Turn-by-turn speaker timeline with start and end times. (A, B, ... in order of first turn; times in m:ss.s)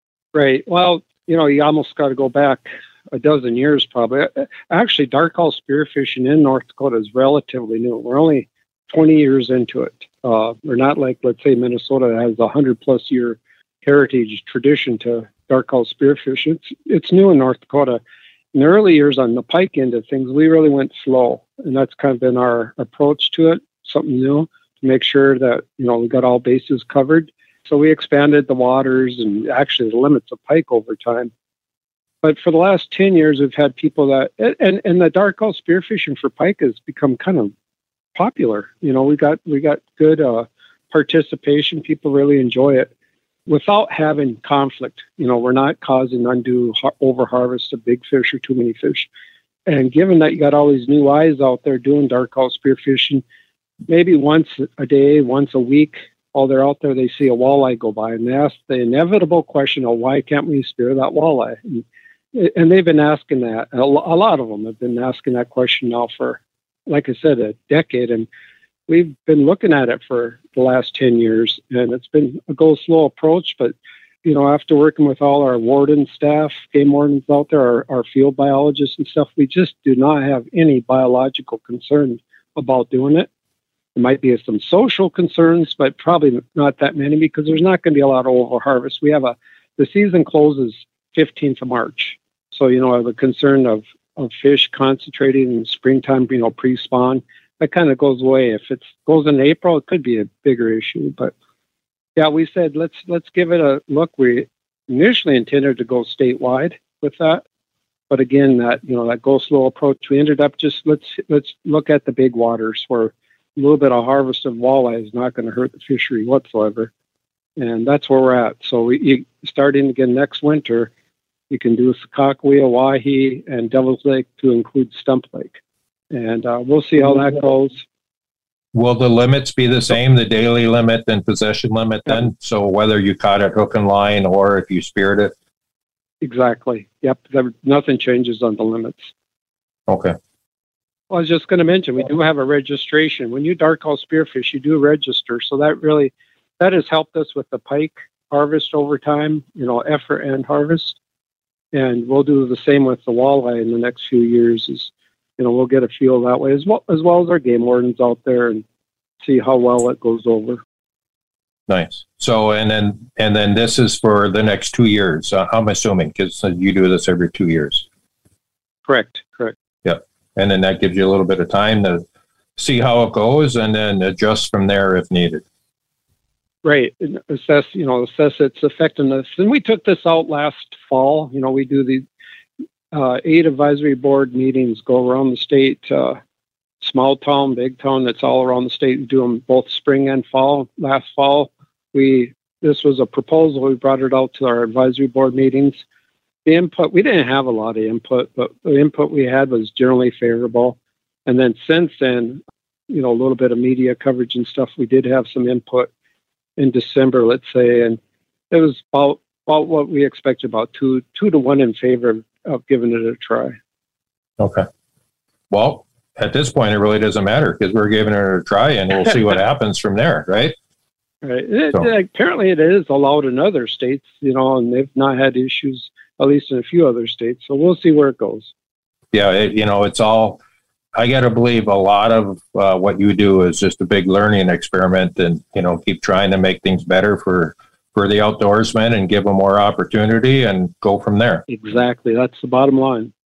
0:00.3-0:18.0 A
0:18.5-0:31.3 A
0:32.2-0:37.5 A
0:38.1-0:42.9 A
0:43.5-0:49.1 A
0:49.7-0:53.2 A
0:53.9-1:08.3 A
1:08.9-1:23.3 A
1:24.0-1:41.3 A
1:42.2-1:47.4 A
1:48.1-1:56.9 A
1:57.6-2:00.9 A
2:01.5-2:05.6 A
2:06.1-2:07.8 A
2:08.7-2:15.3 B
2:16.2-2:19.1 A
2:19.9-2:20.1 B
2:21.1-2:31.0 A
2:31.7-2:38.6 A
2:39.2-2:40.6 A
2:41.7-2:47.8 B
2:48.8-2:49.5 A
2:49.8-2:52.0 B
2:52.6-2:55.4 B
2:56.6-3:02.0 A
3:02.9-3:06.2 A
3:06.8-3:15.8 A
3:16.4-3:25.9 A
3:26.6-3:28.0 A
3:28.5-3:33.6 A
3:34.4-3:34.6 B
3:35.5-3:40.5 B
3:41.2-3:48.5 A
3:49.1-3:50.4 B
3:51.0-4:01.4 B
4:01.5-4:03.1 A